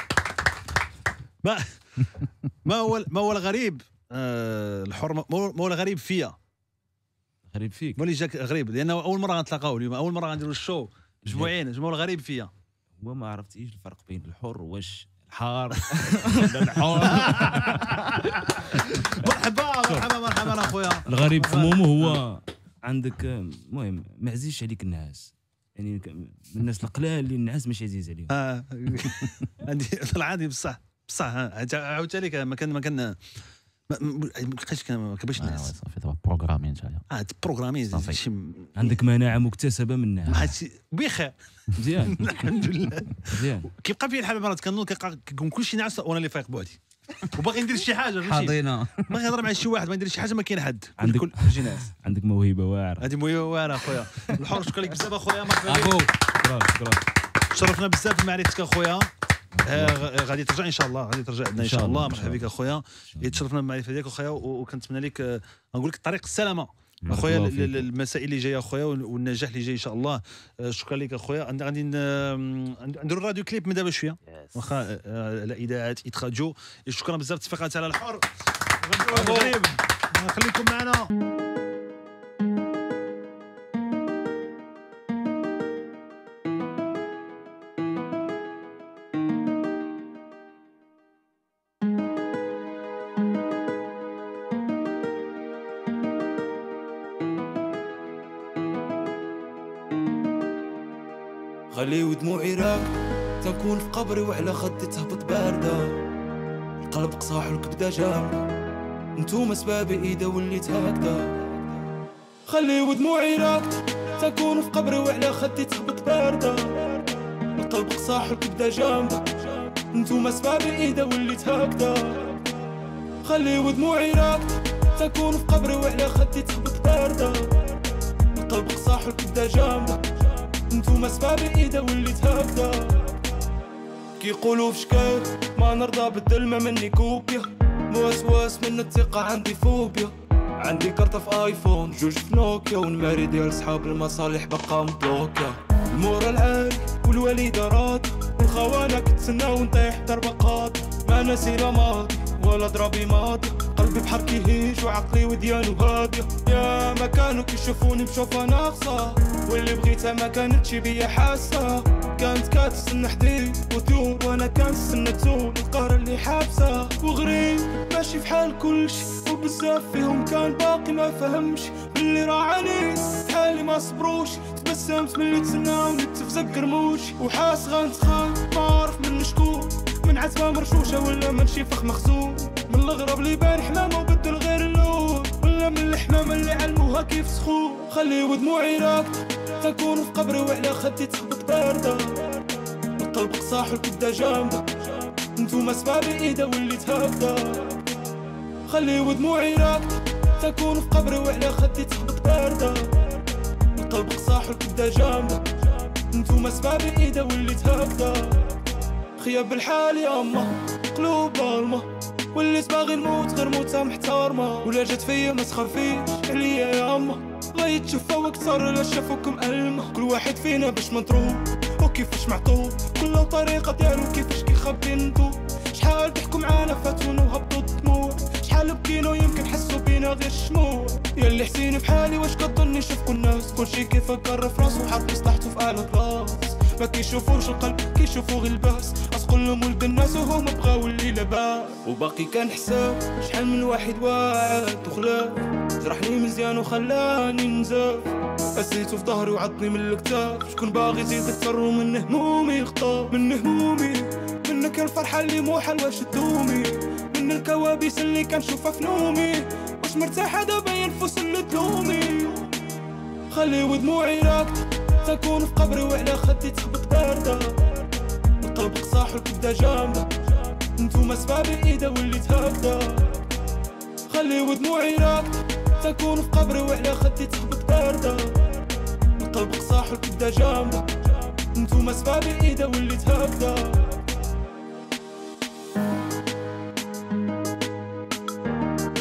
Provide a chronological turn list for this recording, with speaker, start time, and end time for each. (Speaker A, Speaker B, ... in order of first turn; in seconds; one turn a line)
Speaker A: 1.4-2.1
Speaker A: 2.6-6.4
Speaker B: 7.5-8.0
Speaker A: 8.0-12.5
Speaker B: 11.2-11.6
Speaker B: 13.0-19.3
Speaker A: 16.7-22.2
Speaker B: 19.9-28.3
Speaker A: 28.3-33.4
Speaker A: 33.9-35.7
Speaker C: 35.4-37.0
Speaker A: 37.1-39.0
Speaker C: 37.9-38.2
Speaker B: 38.8-40.6
Speaker A: 40.3-41.4
Speaker B: 41.8-42.7
Speaker A: 42.0-51.9
Speaker B: 43.2-43.7
Speaker C: 48.2-49.1
Speaker B: 51.0-53.1
Speaker A: 53.0-56.1
Speaker B: 55.7-57.0
Speaker C: 55.8-56.1
Speaker A: 57.5-59.1
Speaker B: 59.5-60.1
Speaker A: 59.6-78.3
Speaker B: 61.6-63.4
Speaker B: 67.1-67.9
Speaker C: 74.3-74.7
Speaker A: 78.9-81.1
Speaker D: 101.7-102.8
Speaker D: 103.4-105.9
Speaker D: 106.9-108.4
Speaker D: 109.2-111.2
Speaker D: 112.5-122.5
Speaker D: 123.2-127.8
Speaker D: 128.3-133.2
Speaker D: 134.2-192.4
Speaker D: 193.0-197.8
Speaker D: 198.7-203.2
Speaker D: 203.8-208.5
Speaker D: 209.2-262.5
Speaker D: 263.3-264.5
Speaker D: 265.0-267.8
Speaker D: 268.4-270.1
Speaker D: 270.8-273.2
Speaker D: 274.1-278.6
Speaker D: 279.2-284.0